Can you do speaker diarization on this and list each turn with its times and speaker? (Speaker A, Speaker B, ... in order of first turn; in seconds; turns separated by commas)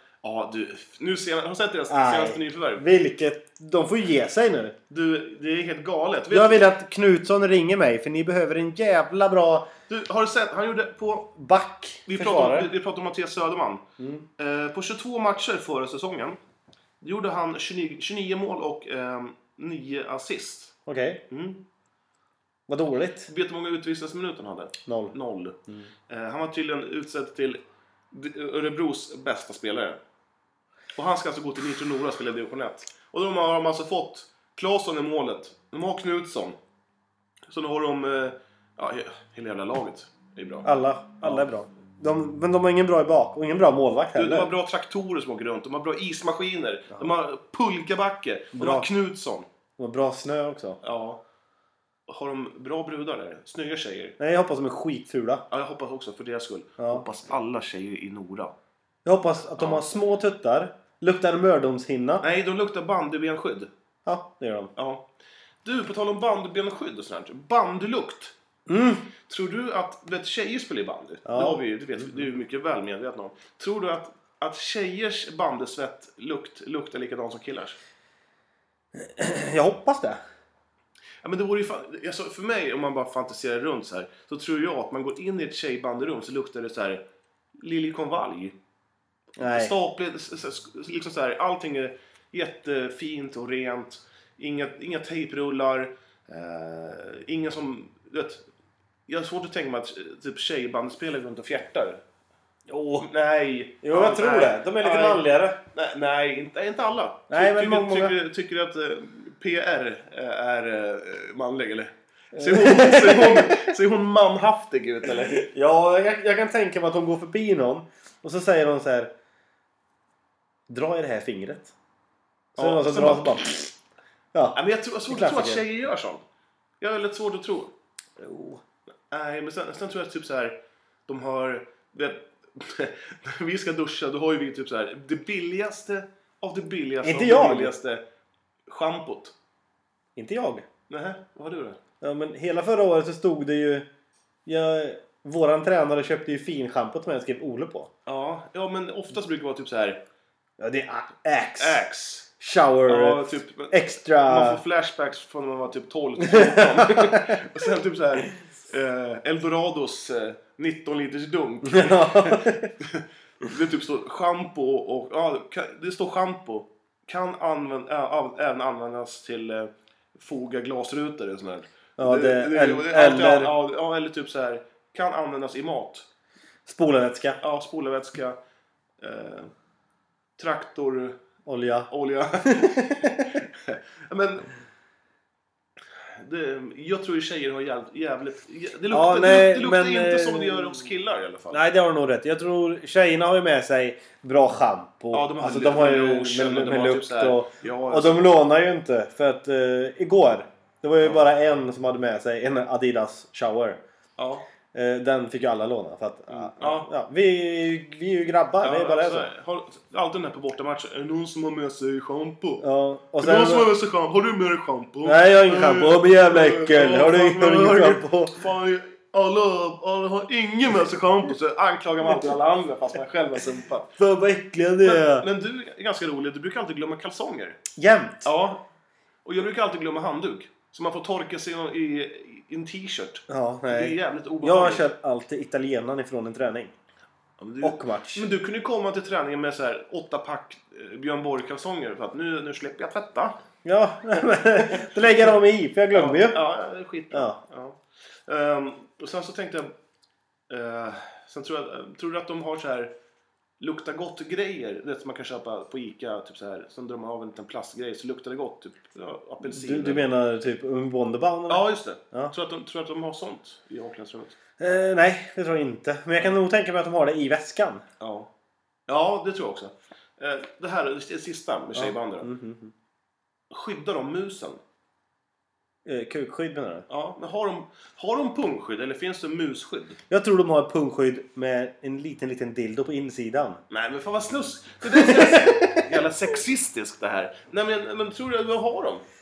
Speaker A: 0.2-2.8, Speaker B: 1.9-4.8, Speaker A: 4.9-6.7, Speaker B: 6.3-9.7, Speaker A: 9.9-11.3, Speaker B: 11.3-12.7, Speaker A: 12.1-13.8, Speaker B: 14.0-14.3, Speaker A: 14.4-16.4, Speaker A: 17.0-20.7, Speaker B: 20.9-21.2, Speaker A: 21.3-21.6, Speaker B: 22.7-23.3, Speaker A: 23.3-30.0, Speaker B: 24.9-25.1, Speaker A: 30.9-36.6, Speaker A: 37.5-40.7, Speaker B: 40.6-44.5, Speaker A: 41.2-41.5, Speaker A: 44.1-49.5, Speaker B: 48.5-48.9, Speaker B: 49.8-50.8, Speaker A: 50.8-51.2, Speaker A: 52.1-54.2, Speaker B: 54.2-55.4, Speaker A: 55.5-58.5, Speaker B: 56.8-57.0, Speaker B: 59.0-62.2, Speaker A: 59.6-59.9, Speaker A: 62.2-63.7, Speaker B: 64.0-64.7, Speaker A: 64.8-65.1, Speaker A: 65.6-68.3, Speaker B: 68.7-69.1, Speaker A: 69.2-77.8, Speaker B: 71.2-72.2, Speaker B: 78.9-80.2, Speaker A: 81.2-87.0, Speaker A: 87.6-88.5, Speaker A: 89.4-98.4, Speaker B: 89.4-89.7, Speaker A: 99.1-102.0, Speaker B: 102.7-103.1, Speaker A: 103.0-115.4, Speaker B: 103.8-105.6, Speaker B: 107.3-108.1, Speaker B: 112.3-113.7, Speaker B: 115.4-119.1, Speaker B: 120.7-121.7, Speaker B: 122.5-123.7, Speaker A: 122.6-123.6, Speaker B: 124.3-125.6, Speaker A: 124.5-126.2, Speaker A: 126.8-127.7, Speaker B: 128.2-128.6, Speaker A: 129.1-138.0, Speaker B: 137.0-137.7, Speaker A: 138.7-139.3, Speaker B: 140.2-140.7, Speaker A: 140.9-141.8, Speaker B: 142.0-143.9, Speaker B: 144.4-147.9, Speaker A: 148.1-150.0, Speaker B: 150.6-151.8, Speaker A: 151.6-152.3, Speaker B: 152.4-154.6, Speaker A: 152.9-176.1, Speaker B: 156.2-157.4, Speaker B: 161.6-162.7, Speaker B: 172.0-173.5, Speaker B: 176.7-177.4, Speaker A: 177.4-178.4, Speaker A: 179.0-179.5, Speaker A: 180.4-181.2, Speaker B: 181.4-183.4, Speaker A: 181.9-184.5, Speaker A: 186.0-191.6, Speaker B: 188.9-190.8, Speaker B: 191.5-203.8, Speaker A: 195.1-198.3, Speaker A: 204.2-204.4, Speaker B: 204.7-209.3, Speaker A: 206.3-206.9, Speaker A: 208.6-212.6, Speaker B: 212.6-213.7, Speaker A: 213.2-224.0, Speaker B: 215.0-218.4, Speaker B: 224.0-225.3, Speaker A: 224.8-227.6, Speaker B: 227.8-228.3, Speaker A: 228.2-228.6, Speaker A: 229.2-234.9, Speaker B: 233.3-236.7, Speaker A: 237.4-243.4, Speaker B: 237.6-238.3, Speaker B: 243.6-246.4, Speaker A: 245.9-249.7, Speaker B: 247.1-247.4, Speaker A: 250.5-252.9, Speaker A: 253.6-260.1, Speaker B: 259.4-262.3, Speaker A: 261.5-264.4, Speaker B: 264.6-267.8, Speaker A: 268.0-268.3, Speaker A: 268.9-272.3, Speaker B: 271.7-272.7, Speaker A: 273.5-274.6, Speaker B: 275.8-276.9, Speaker A: 276.9-280.0, Speaker B: 280.1-283.6, Speaker A: 283.7-289.0, Speaker B: 284.9-285.8